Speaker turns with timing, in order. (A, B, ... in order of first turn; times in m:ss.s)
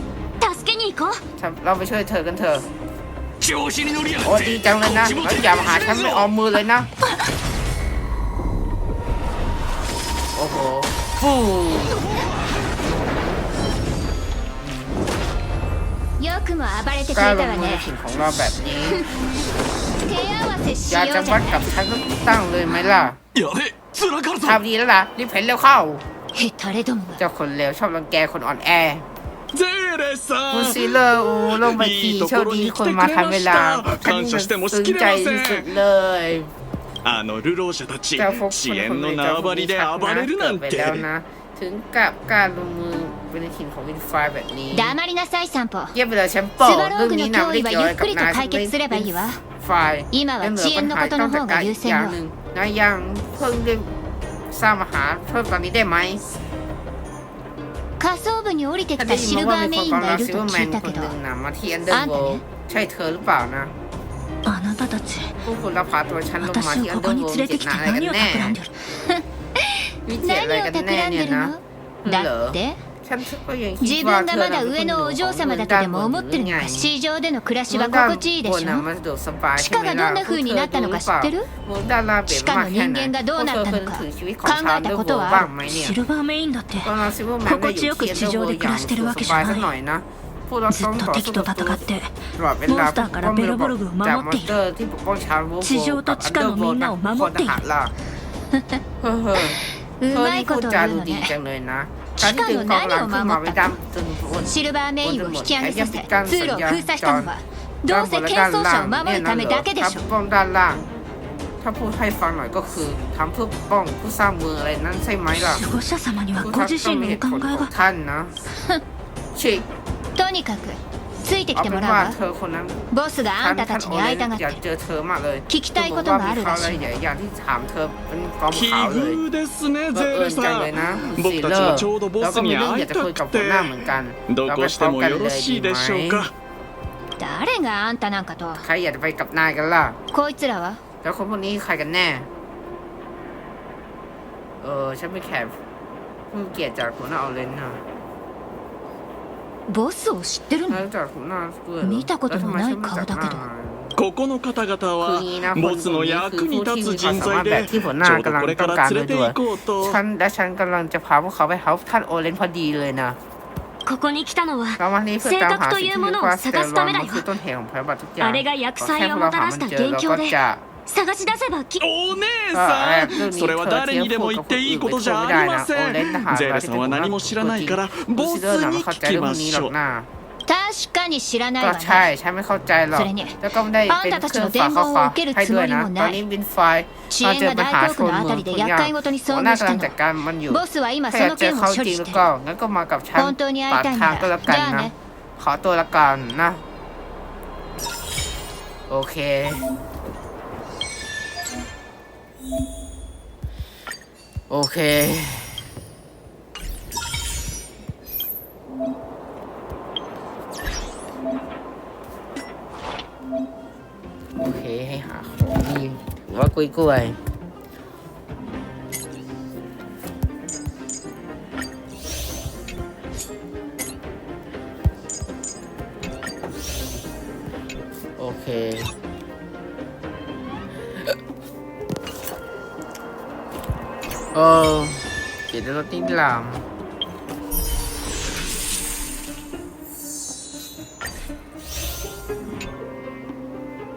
0:00.4-0:01.2 A
0:01.4-0:02.7 B
0:03.4-0:06.3 C
0:04.2-0:06.9 B
0:10.3-0:12.0 B
0:16.2-0:17.9 D
0:17.1-0:19.0 B
0:20.0-0:21.7 D
0:20.9-0:23.2 B
0:23.3-0:24.6 C
0:24.4-0:26.0 B
0:26.3-0:27.2 D
0:27.2-0:29.0 B
0:29.5-0:35.7 C
0:30.5-0:36.5 B
0:37.0-0:41.0 C
0:38.2-0:45.0 B
0:44.7-0:46.0 D
0:45.9-0:53.9 B
0:46.6-0:49.4 D
0:50.1-0:52.2 D
0:54.5-0:56.4 B
0:58.0-1:01.2 D
0:59.0-1:03.7 B
1:01.9-1:02.4 D
1:04.4-1:05.4 E
1:05.4-1:08.6 B
1:06.4-1:08.7 E
1:08.9-1:12.8 D
1:10.0-1:16.9 B
1:13.8-1:18.8 D
1:17.7-1:26.0 B
1:19.6-1:21.5 D
1:22.3-1:25.5 D
1:25.7-1:26.9 E
1:26.8-1:31.8 B
1:27.4-1:29.7 E
1:30.7-1:32.1 E
1:32.4-1:37.9 B
1:32.7-1:34.5 E
1:35.6-1:37.6 E
1:38.5-1:38.8 D
1:39.0-1:39.6 B
1:39.4-1:41.3 D
1:40.1-1:47.3 B
1:42.2-1:43.8 D
1:44.4-1:50.0 D
1:47.8-1:50.8 B
1:51.6-1:55.6 B
1:55.4-1:57.7 E
1:56.4-1:58.3 B
1:58.6-1:58.8 D
1:59.3-1:59.6 B
2:00.2-2:02.2 D
2:01.5-2:02.8 B
2:02.9-2:04.6 D
2:03.3-2:09.2 B
2:05.5-2:06.9 D
2:08.5-2:16.3 C
2:09.9-2:16.3 B
2:17.2-2:18.6 D
2:18.6-2:20.0 B
2:20.1-2:20.8 D
2:21.0-2:22.3 B
2:24.6-2:25.5 B
2:26.3-2:27.8 B
2:29.7-2:30.8 D
2:30.7-2:33.9 B
2:31.8-2:33.4 D
2:34.0-2:40.0 C
2:35.0-2:43.2 B
2:43.8-2:47.2 A
2:44.8-2:50.6 B
2:48.2-2:51.8 A
2:51.8-2:59.7 C
2:52.5-3:00.1 B
3:00.4-3:02.1 D
3:01.6-3:16.6 B
3:02.9-3:06.2 D
3:07.1-3:10.0 D
3:10.5-3:12.3 D
3:13.2-3:14.9 D
3:18.9-3:19.6 B
3:24.5-3:25.6 B
3:34.4-3:37.2 B
3:48.2-3:48.9 B
3:54.3-3:56.6 B